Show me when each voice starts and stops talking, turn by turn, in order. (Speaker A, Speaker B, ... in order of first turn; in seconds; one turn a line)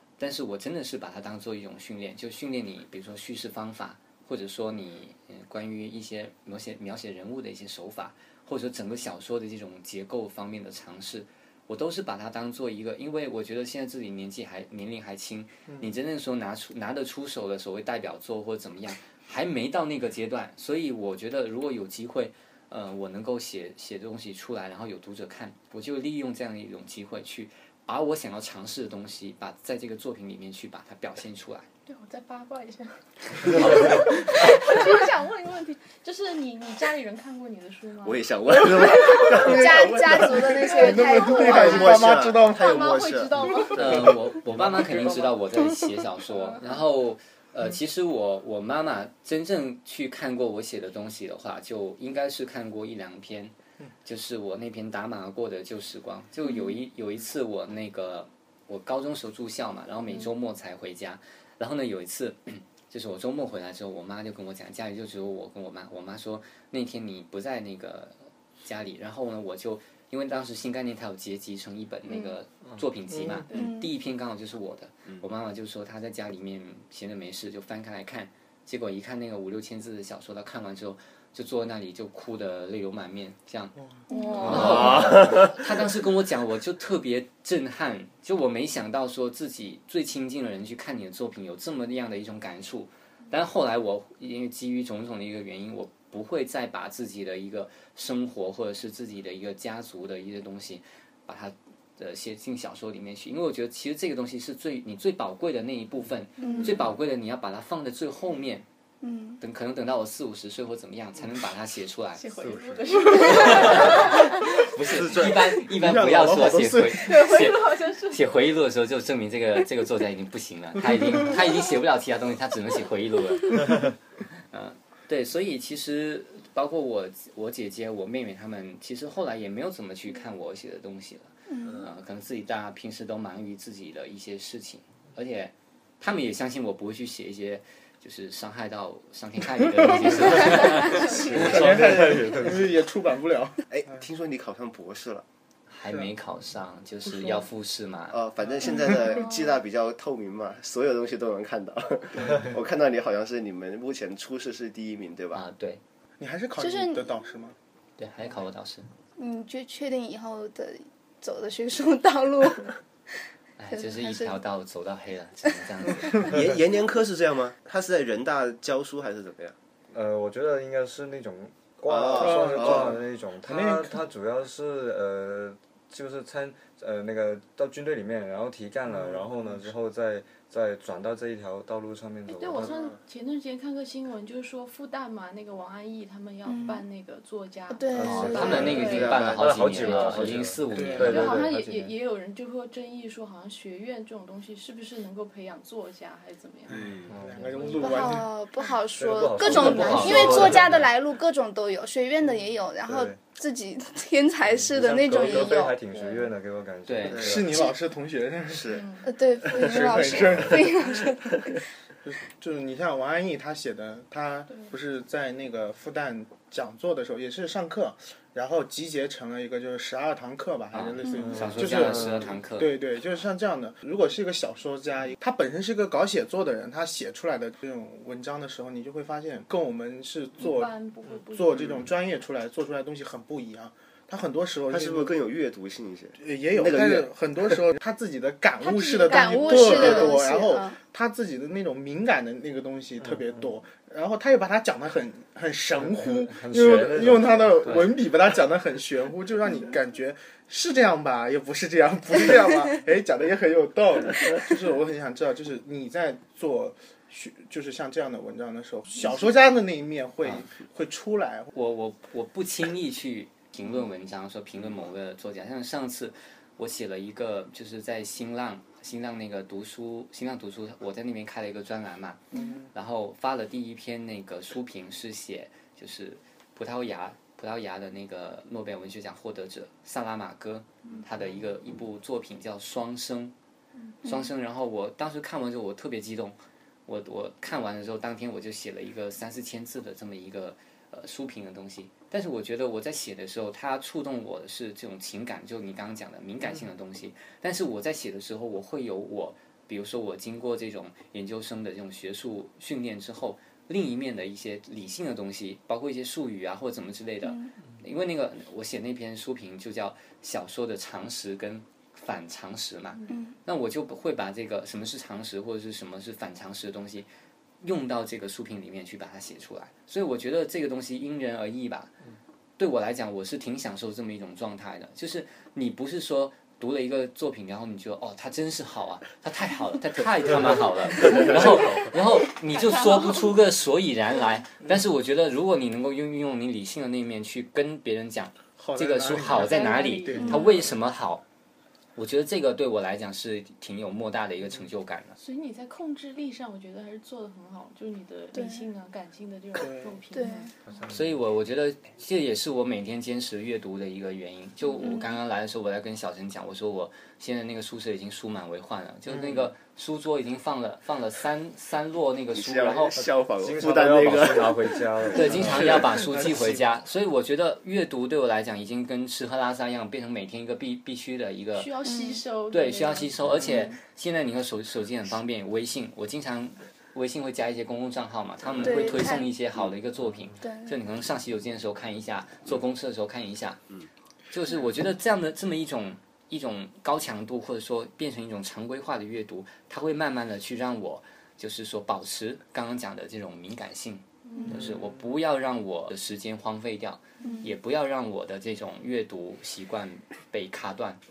Speaker A: 0.2-31.7
Speaker B: 31.9-39.5
Speaker A: 33.5-34.5
Speaker C: 38.0-40.9
Speaker D: 39.4-41.9
Speaker B: 40.5-44.1
Speaker E: 40.7-42.8
Speaker C: 41.4-44.1
Speaker A: 43.8-53.5
Speaker A: 54.0-83.8
Speaker D: 72.1-72.3
Speaker E: 73.1-73.5
Speaker B: 73.5-73.7
Speaker D: 73.5-73.9
Speaker D: 84.1-84.6
Speaker B: 84.1-85.0
Speaker A: 84.4-108.7
Speaker C: 84.5-85.5
Speaker D: 106.4-106.8
Speaker D: 109.0-109.4
Speaker A: 109.4-112.3
Speaker B: 112.2-114.3
Speaker F: 112.4-112.7
Speaker A: 113.1-123.8
Speaker C: 114.8-115.6
Speaker E: 115.6-117.2
Speaker B: 117.0-118.2
Speaker A: 124.5-141.5
Speaker D: 131.5-131.9
Speaker F: 140.5-142.7
Speaker E: 141.1-143.6
Speaker C: 143.7-145.2
Speaker A: 145.7-148.2
Speaker C: 148.1-155.4
Speaker A: 155.3-155.8
Speaker E: 156.2-157.6
Speaker D: 156.6-157.1
Speaker A: 158.0-158.8
Speaker D: 159.2-162.8
Speaker A: 163.6-166.2
Speaker D: 163.7-164.4
Speaker C: 166.2-169.6
Speaker F: 169.9-182.7
Speaker C: 171.9-173.0
Speaker E: 172.2-174.0
Speaker E: 178.9-179.5
Speaker B: 182.3-189.3
Speaker C: 182.7-182.9
Speaker D: 186.5-186.8
Speaker D: 187.7-188.8
Speaker F: 187.9-191.9
Speaker A: 188.1-191.4
Speaker C: 188.4-190.5
Speaker E: 190.7-191.3
Speaker B: 191.0-198.2
Speaker F: 197.1-197.8
Speaker E: 197.2-198.3
Speaker D: 197.8-206.0
Speaker F: 198.9-200.9
Speaker B: 199.4-200.6
Speaker A: 199.4-200.6
Speaker F: 202.9-203.2
Speaker F: 204.5-207.5
Speaker B: 205.2-206.3
Speaker A: 206.9-207.3
Speaker C: 207.1-207.5
Speaker E: 207.2-208.8
Speaker C: 208.5-209.0
Speaker B: 208.7-209.1
Speaker D: 209.1-211.4
Speaker E: 209.5-211.1
Speaker E: 212.0-230.7
Speaker A: 220.7-222.7
Speaker B: 230.4-231.8
Speaker E: 231.3-235.2
Speaker C: 234.7-237.1
Speaker E: 236.2-261.5
Speaker D: 238.7-240.8
Speaker B: 238.8-240.0
Speaker C: 239.7-240.1
Speaker F: 245.8-247.9
Speaker A: 261.5-272.2
Speaker A: 272.7-283.3
Speaker D: 284.1-284.3
Speaker A: 284.1-317.1
Speaker D: 313.1-313.3
Speaker A: 317.6-321.9
Speaker A: 322.6-341.2
Speaker B: 332.5-333.3
Speaker E: 338.6-340.4
Speaker B: 339.3-340.7
Speaker A: 342.0-345.2
Speaker B: 345.2-350.8
Speaker D: 348.3-348.6
Speaker E: 349.6-350.0
Speaker D: 350.1-350.5
Speaker F: 350.7-351.1
Speaker A: 350.9-363.0
Speaker D: 354.8-355.1
Speaker C: 362.3-364.8
Speaker F: 363.4-366.1
Speaker A: 365.1-371.7
Speaker E: 365.4-366.6
Speaker B: 371.6-373.2
Speaker D: 371.8-372.2
Speaker A: 372.5-383.6
Speaker D: 378.6-379.3
Speaker D: 380.4-380.8
Speaker A: 384.3-401.0
Speaker B: 394.2-394.6
Speaker D: 397.2-397.5